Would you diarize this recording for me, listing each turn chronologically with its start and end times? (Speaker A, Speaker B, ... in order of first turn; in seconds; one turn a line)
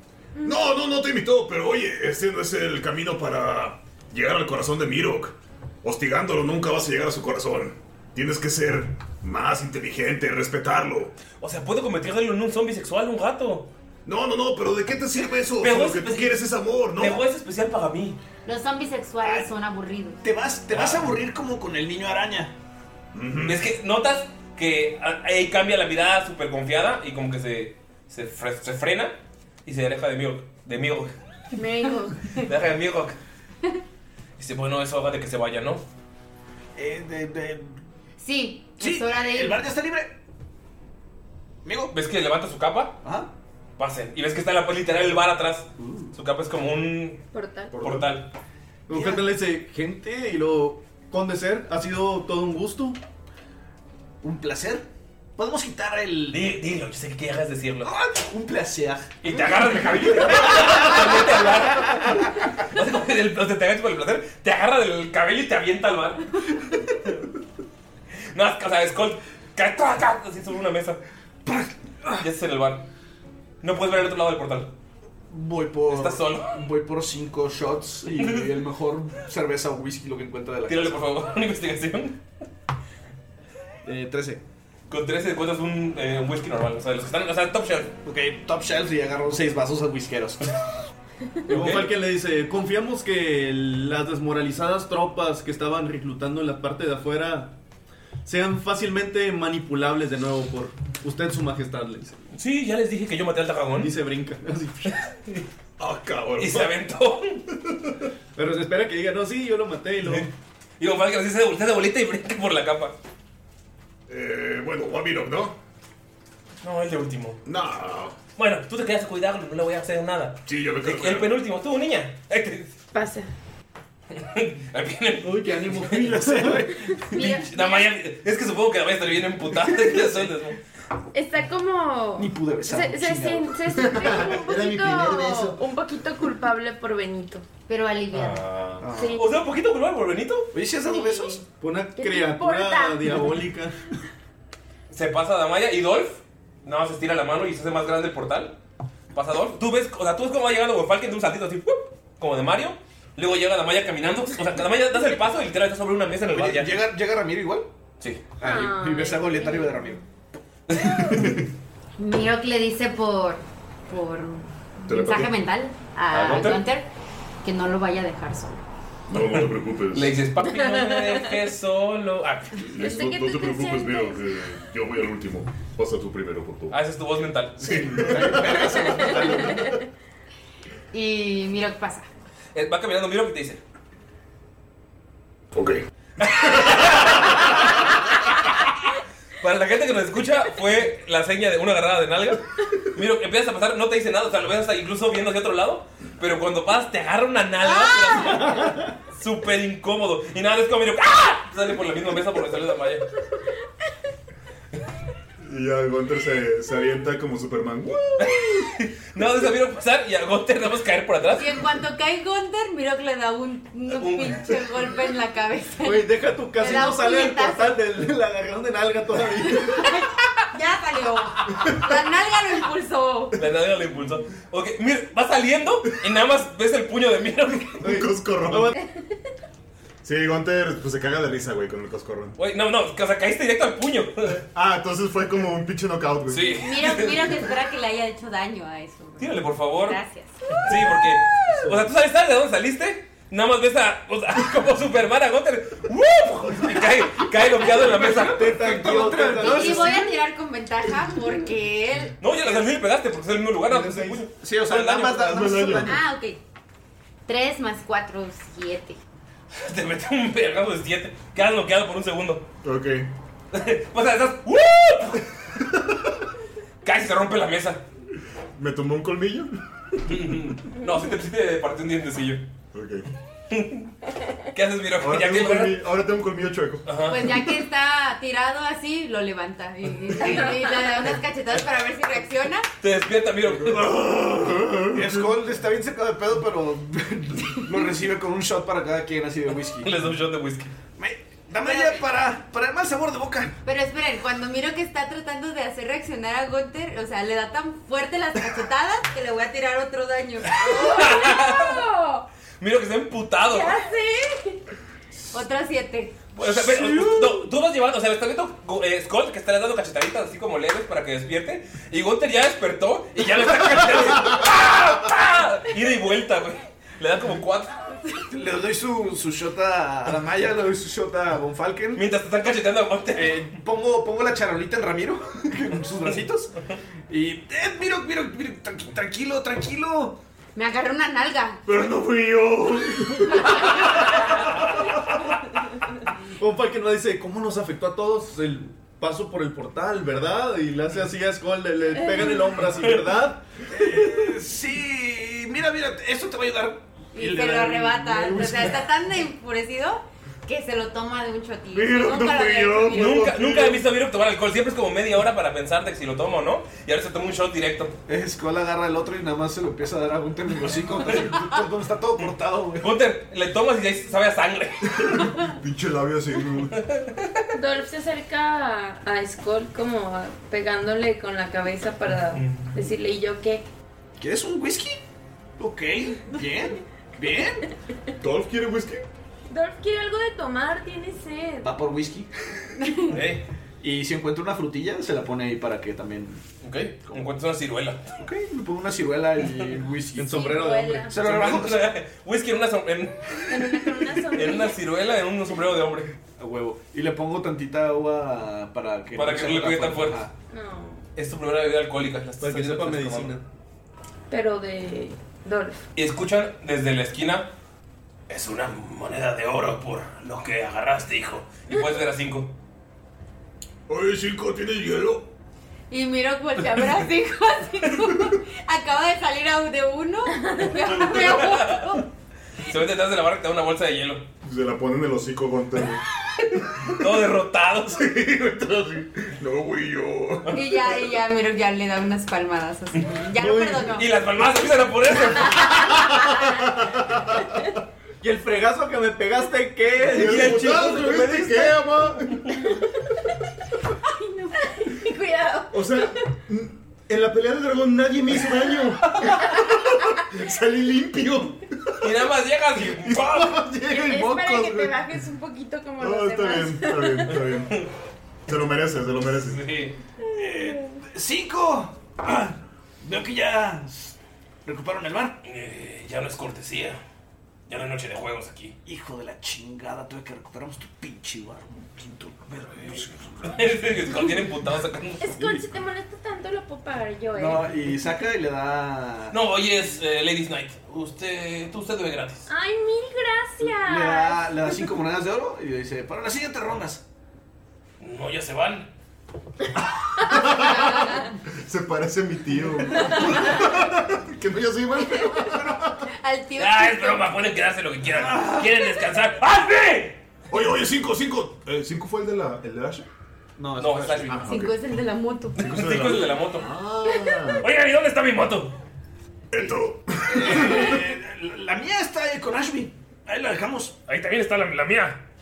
Speaker A: 0.4-0.7
Speaker B: 0.4-11.1
Speaker C: 11.4-13.7
Speaker B: 14.1-17.2
Speaker C: 15.6-16.4
Speaker C: 17.0-18.2
Speaker D: 18.5-20.2
Speaker E: 19.2-19.5
Speaker E: 20.2-22.5
Speaker C: 20.7-21.1
Speaker B: 23.1-23.6
Speaker C: 23.4-31.1
Speaker A: 31.6-32.4
Speaker C: 32.4-33.2
Speaker C: 34.4-35.8
Speaker E: 36.8-37.8
Speaker D: 38.2-39.6
Speaker E: 38.8-40.1
Speaker E: 41.6-41.9
Speaker C: 41.9-43.0
Speaker E: 43.0-43.3
Speaker C: 43.8-47.2
Speaker A: 47.3-47.8
Speaker F: 47.7-48.1
Speaker C: 47.8-48.3
Speaker G: 48.9-53.0
Speaker E: 48.9-49.3
Speaker E: 54.2-56.4
Speaker C: 56.3-57.9
Speaker E: 57.8-59.3
Speaker C: 59.2-66.4
Speaker E: 59.9-62.1
Speaker C: 66.9-67.2
Speaker C: 68.3-71.0
Speaker E: 71.5-72.2
Speaker C: 72.1-72.9
Speaker C: 73.6-74.7
Speaker E: 75.3-81.0
Speaker C: 75.9-76.6
Speaker C: 78.1-78.6
Speaker C: 80.7-82.2
Speaker E: 83.8-84.4
Speaker C: 84.9-87.9
Speaker E: 88.0-90.4
Speaker C: 91.5-91.9
Speaker G: 91.5-97.5
Speaker G: 98.2-102.2
Speaker C: 102.3-103.9
Speaker G: 103.8-105.0
Speaker C: 104.9-105.5
Speaker B: 105.8-106.7
Speaker C: 106.4-107.4
Speaker G: 108.4-110.3
Speaker C: 110.0-110.3
Speaker C: 110.8-113.0
Speaker B: 114.1-115.6
Speaker C: 116.6-117.4
Speaker B: 117.5-118.2
Speaker C: 118.4-122.8
Speaker B: 120.5-121.3
Speaker A: 122.9-123.3
Speaker C: 124.1-126.1
Speaker G: 125.2-126.6
Speaker E: 125.9-127.2
Speaker A: 127.1-127.8
Speaker C: 127.1-130.6
Speaker D: 127.2-127.5
Speaker A: 131.1-137.4
Speaker E: 132.2-134.2
Speaker F: 133.9-135.6
Speaker D: 137.7-138.4
Speaker C: 138.1-140.5
Speaker E: 138.8-139.2
Speaker A: 138.9-139.3
Speaker E: 140.5-141.4
Speaker A: 140.8-141.4
Speaker G: 141.6-143.8
Speaker A: 142.0-143.4
Speaker C: 144.9-148.6
Speaker C: 149.1-156.8
Speaker E: 156.3-157.7
Speaker E: 158.4-160.0
Speaker A: 158.4-160.0
Speaker C: 160.7-161.4
Speaker D: 162.0-166.9
Speaker B: 164.9-165.3
Speaker C: 166.1-166.6
Speaker D: 167.4-168.6
Speaker B: 169.1-170.2
Speaker C: 169.2-172.8
Speaker A: 170.5-171.3
Speaker B: 172.6-176.8
Speaker A: 172.7-174.3
Speaker C: 176.7-178.0
Speaker E: 177.6-179.6
Speaker A: 178.8-179.8
Speaker D: 180.9-182.1
Speaker C: 182.5-183.6
Speaker B: 185.5-185.8
Speaker C: 186.2-187.9
Speaker C: 189.4-203.1
Speaker F: 205.4-208.3
Speaker C: 208.2-211.6
Speaker D: 211.3-217.8
Speaker C: 213.9-214.4
Speaker G: 215.8-220.0
Speaker D: 219.7-223.3
Speaker C: 223.4-227.8
Speaker G: 227.8-228.8
Speaker F: 227.8-228.8
Speaker F: 230.0-232.4
Speaker C: 232.4-234.4
Speaker F: 234.5-236.6
Speaker C: 236.3-237.4
Speaker D: 236.6-240.7
Speaker C: 239.2-240.0
Speaker C: 240.6-248.7
Speaker E: 247.8-250.1
Speaker G: 248.0-250.1
Speaker D: 249.4-252.2
Speaker C: 252.2-255.6
Speaker G: 253.7-254.3
Speaker E: 254.4-256.0
Speaker F: 255.3-256.0
Speaker D: 255.8-256.4
Speaker D: 257.3-259.0
Speaker C: 259.6-262.4
Speaker F: 262.6-263.1
Speaker C: 263.5-265.3
Speaker C: 266.8-267.8
Speaker F: 268.6-269.5
Speaker C: 270.1-272.4
Speaker F: 272.7-273.1
Speaker C: 273.5-273.9
Speaker C: 274.5-275.8
Speaker F: 275.0-276.9
Speaker C: 276.9-277.4
Speaker D: 277.1-282.7
Speaker C: 282.8-283.9
Speaker F: 283.6-285.3
Speaker B: 283.9-284.4
Speaker E: 284.9-289.9
Speaker C: 289.8-290.7
Speaker E: 291.0-293.5
Speaker D: 293.6-300.7
Speaker C: 300.6-301.9
Speaker A: 300.6-302.2
Speaker C: 302.6-303.8
Speaker A: 303.5-304.6
Speaker D: 305.3-306.1
Speaker C: 306.4-318.0
Speaker E: 318.3-322.0
Speaker C: 321.9-323.6
Speaker E: 323.1-326.5
Speaker E: 327.1-330.2
Speaker D: 330.6-331.6
Speaker B: 331.7-333.2
Speaker G: 336.4-344.4
Speaker A: 342.0-342.5
Speaker E: 343.7-348.7
Speaker D: 347.1-353.3
Speaker B: 351.7-353.8
Speaker C: 352.9-357.9
Speaker E: 358.1-362.9
Speaker C: 362.8-365.2
Speaker F: 365.0-366.8
Speaker C: 366.8-367.4
Speaker A: 367.5-373.6
Speaker C: 372.1-372.7
Speaker E: 374.2-375.0
Speaker E: 375.6-377.6
Speaker B: 378.2-379.0
Speaker F: 378.3-378.8
Speaker A: 379.5-381.7
Speaker E: 381.6-382.3
Speaker C: 383.1-383.4
Speaker E: 383.8-386.4
Speaker C: 386.6-388.0
Speaker E: 388.2-390.4
Speaker G: 390.1-391.1
Speaker A: 390.3-391.1
Speaker E: 391.1-391.9
Speaker C: 391.1-396.1
Speaker A: 393.5-394.8
Speaker G: 396.4-396.8
Speaker E: 396.4-400.3
Speaker C: 399.1-400.3
Speaker A: 400.5-401.0
Speaker C: 401.2-403.4
Speaker G: 402.4-403.4
Speaker A: 404.3-405.8
Speaker C: 406.0-407.5
Speaker C: 408.3-412.5
Speaker B: 413.9-415.3
Speaker D: 415.9-421.9
Speaker A: 420.4-421.5
Speaker C: 420.8-422.0
Speaker C: 422.6-424.2
Speaker F: 424.4-426.0
Speaker C: 426.8-428.1
Speaker B: 428.0-430.5
Speaker C: 430.4-430.8
Speaker D: 430.5-434.1
Speaker G: 433.4-434.0
Speaker C: 433.9-436.0
Speaker G: 438.2-441.4
Speaker F: 440.0-442.5
Speaker C: 440.1-441.7
Speaker A: 444.1-446.1
Speaker F: 445.7-452.1
Speaker C: 452.0-453.7
Speaker F: 452.8-455.0
Speaker A: 453.9-457.4
Speaker F: 456.0-457.8
Speaker C: 457.3-457.9
Speaker F: 458.5-459.6
Speaker C: 459.3-460.0
Speaker A: 460.2-460.9
Speaker E: 460.3-465.4
Speaker C: 465.4-467.0
Speaker C: 467.7-468.8
Speaker E: 468.9-473.5
Speaker C: 473.4-475.6
Speaker A: 475.2-477.7
Speaker E: 477.4-479.4
Speaker C: 479.3-482.5
Speaker A: 482.5-484.9
Speaker E: 483.6-487.0
Speaker C: 488.0-488.9
Speaker F: 490.2-496.0
Speaker D: 496.2-497.3
Speaker C: 496.6-500.2
Speaker E: 498.1-498.8
Speaker B: 500.5-503.1
Speaker F: 502.1-503.0
Speaker E: 503.6-504.5
Speaker C: 503.8-504.5
Speaker F: 504.3-504.8
Speaker D: 504.5-505.6
Speaker C: 505.6-506.7
Speaker F: 505.6-507.6
Speaker C: 507.6-508.8
Speaker B: 509.5-510.8
Speaker E: 510.3-514.0
Speaker C: 514.1-515.2